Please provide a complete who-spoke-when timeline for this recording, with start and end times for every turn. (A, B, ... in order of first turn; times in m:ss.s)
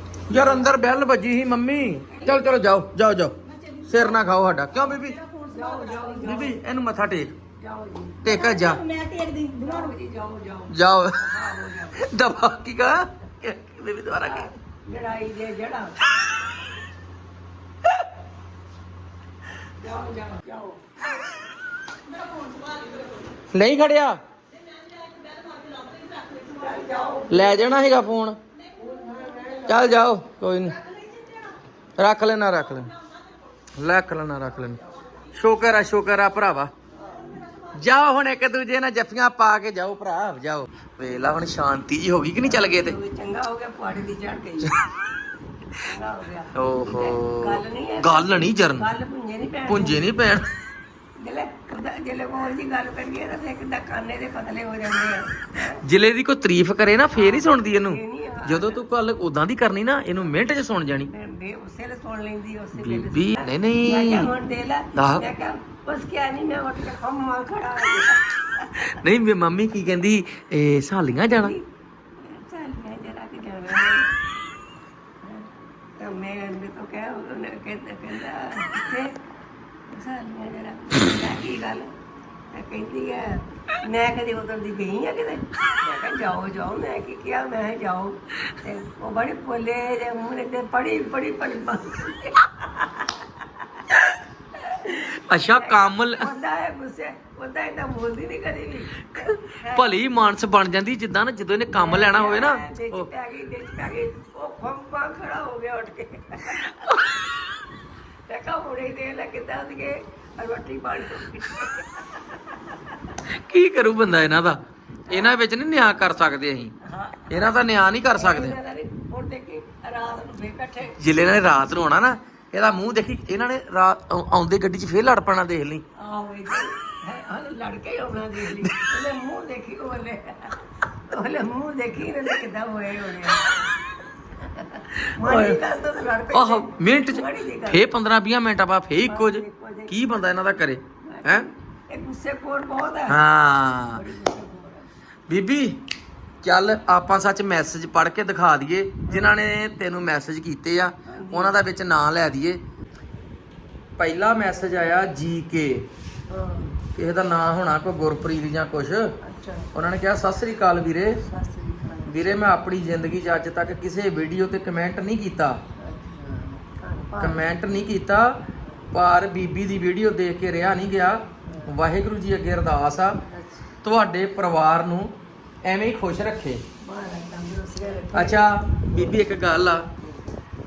0:00.3-0:03.4 A
0:00.3-0:00.7 B
0:03.4-0:06.5 C
0:03.9-0:05.2 A
0:05.5-0:06.6 B
0:06.2-0:07.4 A
0:07.6-0:08.3 B
0:08.2-0:08.8 A
0:08.2-0:09.9 C
0:09.6-0:12.0 B
0:10.7-0:11.2 A
0:11.9-0:14.5 A
0:14.2-0:15.9 B
0:19.8-0:20.8 B
0:22.0-0:23.4 C
0:23.5-0:24.2 A
0:24.5-0:27.3 C
0:26.6-0:27.7 B
0:27.3-0:28.4 A
0:28.5-0:29.8 C
0:28.8-0:30.1 B
0:29.7-0:30.8 A
0:30.5-0:31.6 C
0:32.0-0:32.9 A
0:32.5-0:33.6 C
0:33.8-0:34.8 A
0:34.9-0:35.4 C
0:35.3-0:36.7 A
0:36.9-0:37.3 B
0:37.0-0:38.0 C
0:37.7-0:43.0 A
0:42.4-0:44.7 B
0:45.8-0:50.1 B
0:46.5-0:48.9 A
0:49.6-0:50.5 A
0:51.2-0:55.8 B
0:55.8-1:01.1 A
0:57.1-0:58.8 B
1:01.1-1:08.8 B
1:02.7-1:04.3 A
1:04.9-1:05.3 A
1:08.8-1:11.5 A
1:11.3-1:14.1 B
1:15.2-1:19.2 B
1:19.9-1:21.9 B
1:22.5-1:33.9 B
1:34.6-1:39.9 B
1:34.8-1:36.3 A
1:39.2-1:43.1 A
1:41.7-1:47.0 B
1:48.3-1:53.1 B
1:53.2-1:54.6 A
1:55.1-1:56.7 A
1:55.1-1:55.4 B
1:56.8-2:01.0 B
1:57.3-1:58.6 A
2:01.0-2:05.8 A
2:06.0-2:13.6 B
2:14.4-2:17.9 B
2:14.9-2:15.6 A
2:16.3-2:21.5 A
2:19.0-2:20.1 B
2:21.0-2:23.2 B
2:23.1-2:24.0 A
2:23.9-2:24.9 B
2:25.3-2:25.8 A
2:26.4-2:32.6 A
2:29.1-2:29.3 B
2:31.0-2:31.6 B
2:34.0-2:35.9 A
2:36.3-2:36.7 B
2:36.9-2:39.1 A
2:39.2-2:39.7 B
2:39.7-2:41.2 A
2:41.2-2:42.4 B
2:42.1-2:45.6 A
2:45.8-2:47.5 B
2:47.2-2:53.2 A
2:48.6-2:48.9 B
2:51.4-2:51.7 B
2:53.2-2:53.7 B
2:53.8-2:56.6 A
2:56.8-2:59.3 B
2:58.1-2:59.8 A
2:59.9-3:00.2 B